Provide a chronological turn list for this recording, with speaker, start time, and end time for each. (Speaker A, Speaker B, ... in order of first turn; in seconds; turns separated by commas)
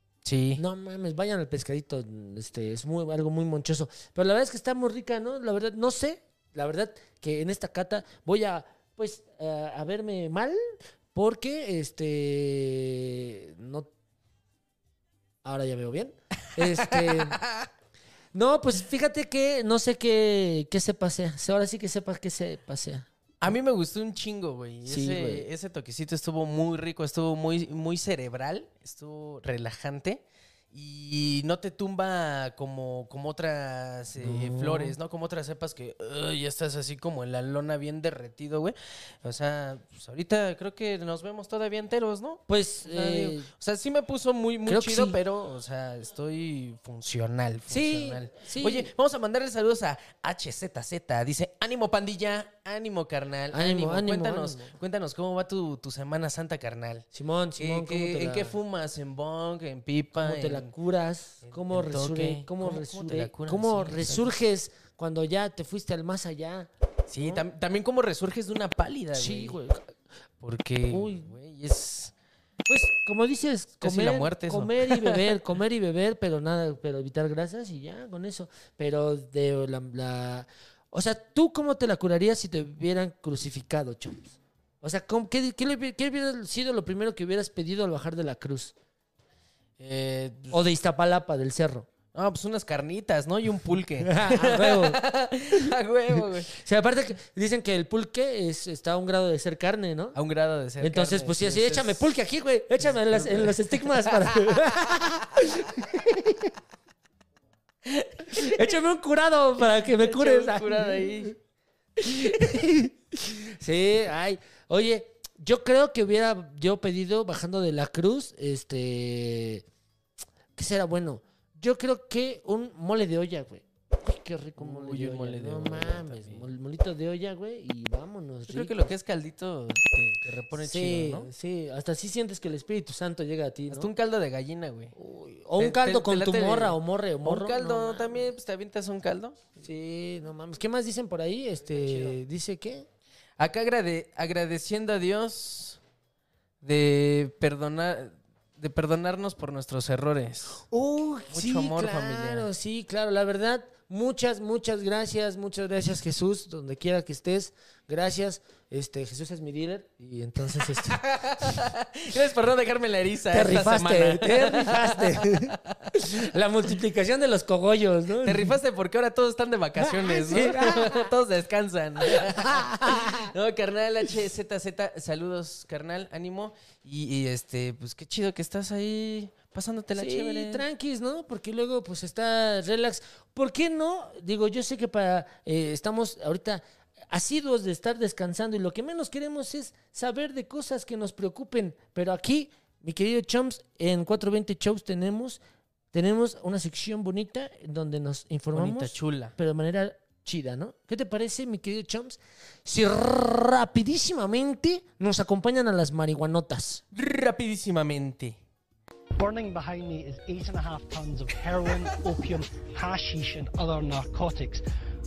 Speaker A: 0.2-0.6, Speaker B: 0.6-10.6, Speaker B: 11.1-13.9, Speaker B: 15.4-17.4, Speaker A: 16.6-17.7, Speaker B: 18.3-23.1, Speaker A: 23.4-57.0, Speaker B: 24.9-25.5, Speaker B: 34.2-34.9, Speaker B: 42.5-43.5, Speaker B: 44.7-45.2, Speaker B: 47.7-48.9, Speaker B: 53.5-54.7, Speaker B: 57.1-58.6, Speaker A: 57.6-60.7, Speaker B: 60.1-67.4, Speaker A: 61.4-64.3, Speaker A: 67.1-69.6, Speaker B: 69.1-69.8, Speaker A: 70.4-72.1, Speaker B: 70.9-71.3, Speaker B: 72.7-88.7, Speaker A: 73.8-75.4, Speaker A: 89.8-90.6, Speaker B: 90.5-91.9, Speaker A: 92.1-96.5, Speaker B: 94.0-95.0, Speaker B: 96.5-100.2, Speaker A: 100.1-102.0, Speaker B: 100.8-106.5, Speaker A: 102.8-104.5, Speaker B: 108.2-111.3, Speaker A: 109.8-111.3, Speaker B: 112.0-119.6, Speaker B: 120.5-128.9, Speaker A: 124.6-126.5, Speaker A: 128.5-131.3, Speaker B: 130.6-133.9, Speaker A: 133.7-134.9, Speaker B: 134.9-138.3, Speaker A: 135.6-139.4, Speaker B: 139.6-142.9, Speaker A: 141.7-142.2, Speaker A: 143.4-145.8, Speaker A: 146.6-150.6, Speaker B: 150.6-161.7, Speaker A: 151.3-152.5, Speaker A: 160.5-165.9, Speaker B: 163.3-168.6, Speaker A: 168.2-180.6, Speaker B: 169.8-171.1, Speaker B: 172.0-173.3, Speaker B: 179.9-195.4, Speaker B: 195.9-206.8, Speaker A: 198.5-199.3, Speaker A: 206.9-208.4, Speaker C: 209.2-214.6